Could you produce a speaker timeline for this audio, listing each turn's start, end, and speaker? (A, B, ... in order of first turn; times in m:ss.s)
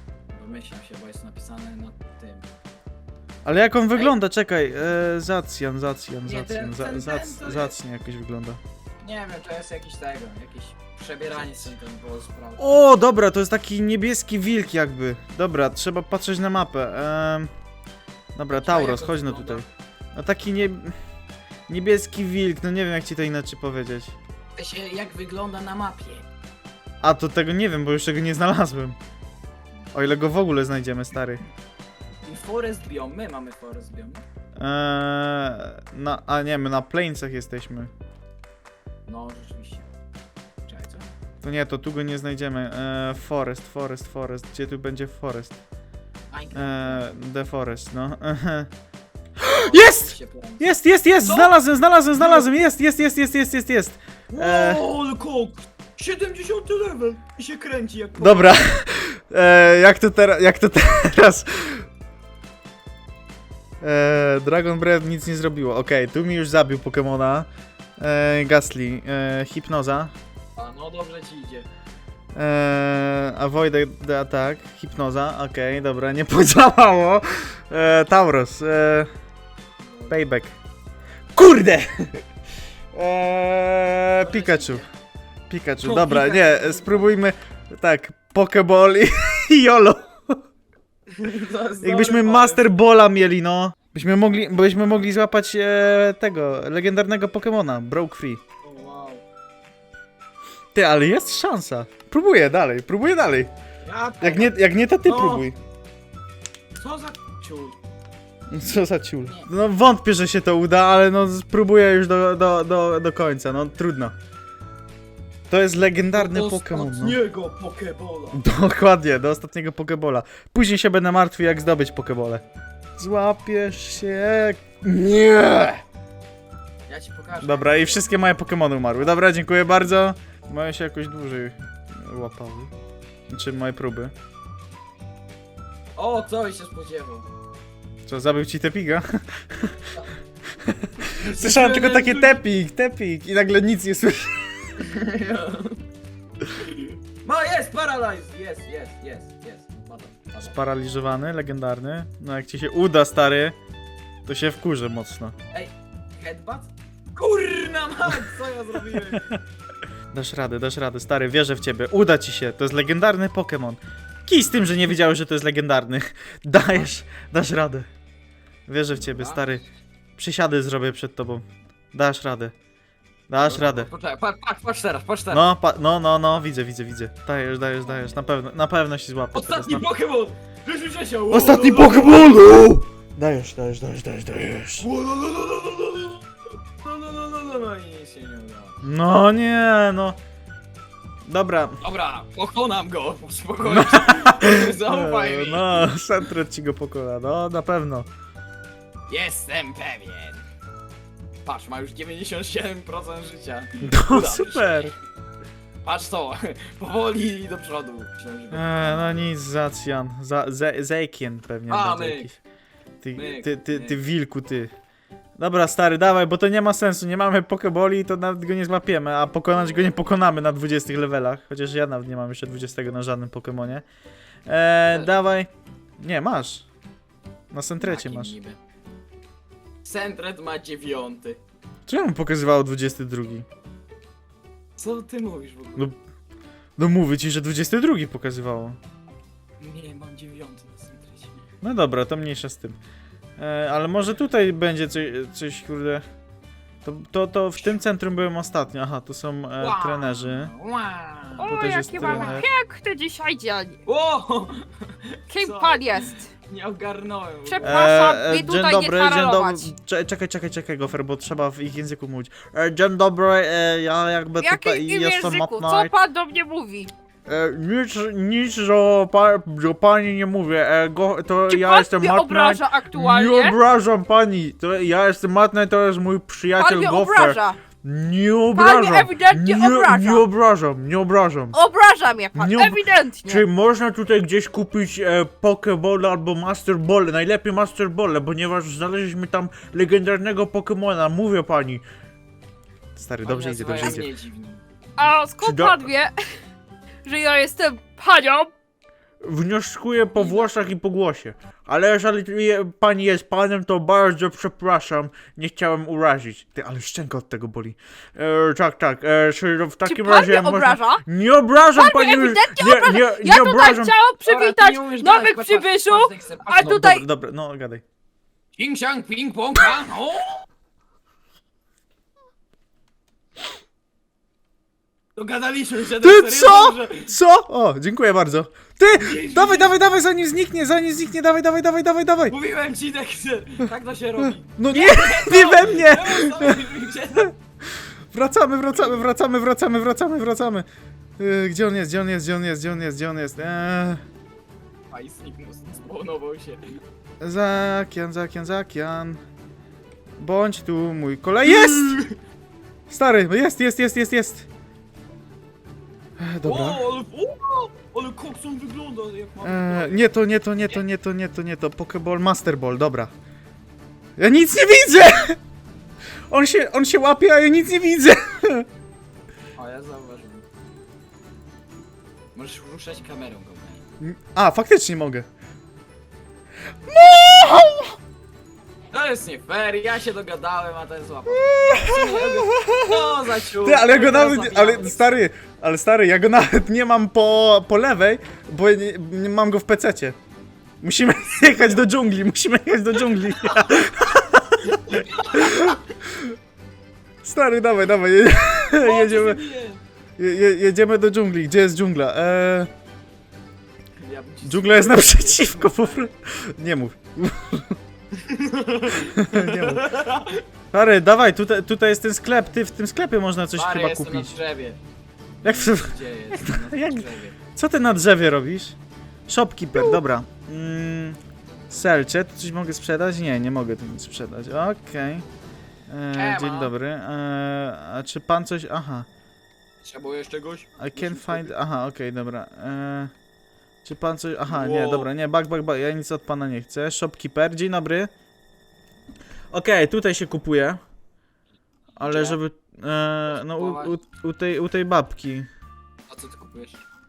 0:00.3-0:02.5 A
0:03.4-0:08.6 B
0:03.9-0:04.2 A
0:06.2-0:07.8 A
0:09.0-0:12.8 A
0:11.3-0:11.7 B
0:12.6-0:17.5 B
0:18.4-0:21.0 B
0:18.5-0:19.6 A
0:21.7-0:24.2 B
0:24.6-0:26.3 A
0:27.0-0:29.0 B
0:29.9-0:31.4 B
0:32.2-0:34.2 A
0:34.6-0:37.9 B
0:39.1-0:39.9 A
0:40.6-0:41.1 A
0:41.4-0:45.6 B
0:46.3-0:47.0 A
0:46.6-0:48.7 B
0:49.4-0:54.8 B
0:49.4-0:51.6 A
0:52.1-0:52.5 A
0:54.3-0:58.6 A
0:58.2-1:01.9 B
1:03.8-1:10.1 B
1:10.6-1:11.7 A
1:12.4-1:19.1 B
1:19.8-1:20.2 A
1:20.1-1:20.6 B
1:21.4-1:22.2 B
1:22.9-1:24.9 B
1:24.2-1:24.9 A
1:25.5-1:30.4 B
1:25.8-1:27.2 A
1:31.1-1:32.6 A
1:31.8-1:38.4 B
1:38.6-1:39.2 A
1:40.8-1:43.5 B
1:43.8-1:45.5 A
1:44.2-1:45.6 B
1:46.8-1:47.8 A
1:48.5-1:54.2 B
1:55.5-1:57.2 B
1:56.1-1:58.4 A
1:58.3-2:02.4 B
2:03.0-2:05.8 B
2:06.9-2:08.4 A
2:07.4-2:12.7 B
2:13.3-2:14.1 B
2:16.0-2:17.3 A
2:18.1-2:20.0 B
2:20.5-2:24.7 B
2:21.1-2:22.4 A
2:24.8-2:25.8 A
2:26.5-2:30.6 A
2:30.4-2:33.6 B
2:34.3-2:35.3 B
2:35.5-2:39.3 A
2:40.1-2:47.9 B
2:48.7-2:49.7 B
2:48.9-2:49.5 A
2:50.2-2:52.6 B
2:53.3-2:53.9 B
2:53.4-2:55.5 A
2:55.3-2:59.9 B
2:59.3-3:02.3 A
3:01.3-3:04.9 B
3:04.8-3:06.2 A
3:06.8-3:08.8 A
3:08.8-3:10.2 B
3:11.3-3:11.8 B
3:11.8-3:16.0 A
3:13.7-3:18.1 B
3:19.1-3:20.4 A
3:21.4-3:25.0 A
3:23.8-3:24.9 B
3:25.8-3:29.3 A
3:28.5-3:32.4 B
3:31.7-3:32.3 A
3:33.0-3:34.7 B
3:33.1-3:34.0 A
3:35.4-3:43.8 B
3:44.5-3:46.7 B
3:47.5-3:48.3 B
3:47.8-3:48.6 A
3:49.8-3:51.4 A
3:51.9-3:53.5 B
3:54.8-3:55.9 A
3:56.8-3:58.8 B
3:59.6-4:01.4 A
4:01.6-4:02.8 B
4:03.4-4:06.0 B
4:06.8-4:10.5 B
4:09.6-4:12.5 A
4:11.4-4:13.8 C
4:11.5-4:12.5 B
4:13.8-4:18.0 A
4:15.3-4:16.3 C
4:17.5-4:19.7 C
4:17.6-4:25.9 B
4:24.4-4:26.9 C
4:27.3-4:41.6 B
4:31.5-4:33.6 C
4:36.6-4:37.6 C
4:38.6-4:40.2 C
4:41.5-4:43.5 C
4:42.4-4:51.8 B
4:53.0-4:54.1 B
4:53.2-4:54.6 A
4:55.0-4:56.4 C
4:55.3-4:55.9 B
4:57.0-4:58.5 C
4:59.2-5:14.0 B
5:09.8-5:11.0 C
5:11.7-5:17.0 C
5:14.2-5:16.6 A
5:16.6-5:17.8 B
5:18.6-5:20.4 A
5:25.2-5:27.2 A
5:26.0-5:32.4 B
5:29.0-5:29.8 A
5:32.3-5:37.3 A
5:34.6-5:36.7 B
5:37.7-5:40.7 B
5:38.8-5:39.1 A
5:41.2-5:44.0 B
5:44.9-5:46.8 A
5:47.2-5:49.2 B
5:50.2-5:52.0 B
5:51.4-5:52.2 A
5:52.9-5:54.5 B
5:56.2-5:56.8 B
5:56.4-6:00.0 A
5:59.4-6:03.1 B
6:04.2-6:05.4 B
6:06.3-6:08.7 B
6:09.6-6:10.5 A
6:12.3-6:13.8 A
6:14.0-6:15.3 B
6:16.9-6:18.0 B
6:18.9-6:25.1 A
6:21.3-6:30.2 B
6:30.8-6:36.4 B
6:34.7-6:35.8 A
6:37.2-6:39.4 B
6:38.7-6:39.8 A
6:40.2-6:42.7 B
6:44.0-6:46.1 A
6:44.4-6:47.8 B
6:48.1-6:50.4 A
6:49.1-6:49.9 B
6:50.7-6:54.4 B
6:53.5-6:54.8 A
6:55.4-6:57.4 A
6:55.4-6:58.8 B
6:59.3-7:01.2 B
7:01.7-7:05.2 B
7:05.9-7:09.1 B
7:06.1-7:06.7 A
7:09.8-7:11.6 A
7:10.8-7:13.1 B
7:13.8-7:18.1 B
7:14.4-7:15.1 A
7:19.5-7:20.8 B
7:22.0-7:25.5 B
7:22.0-7:22.4 A
7:23.3-7:24.0 A
7:26.1-7:26.8 A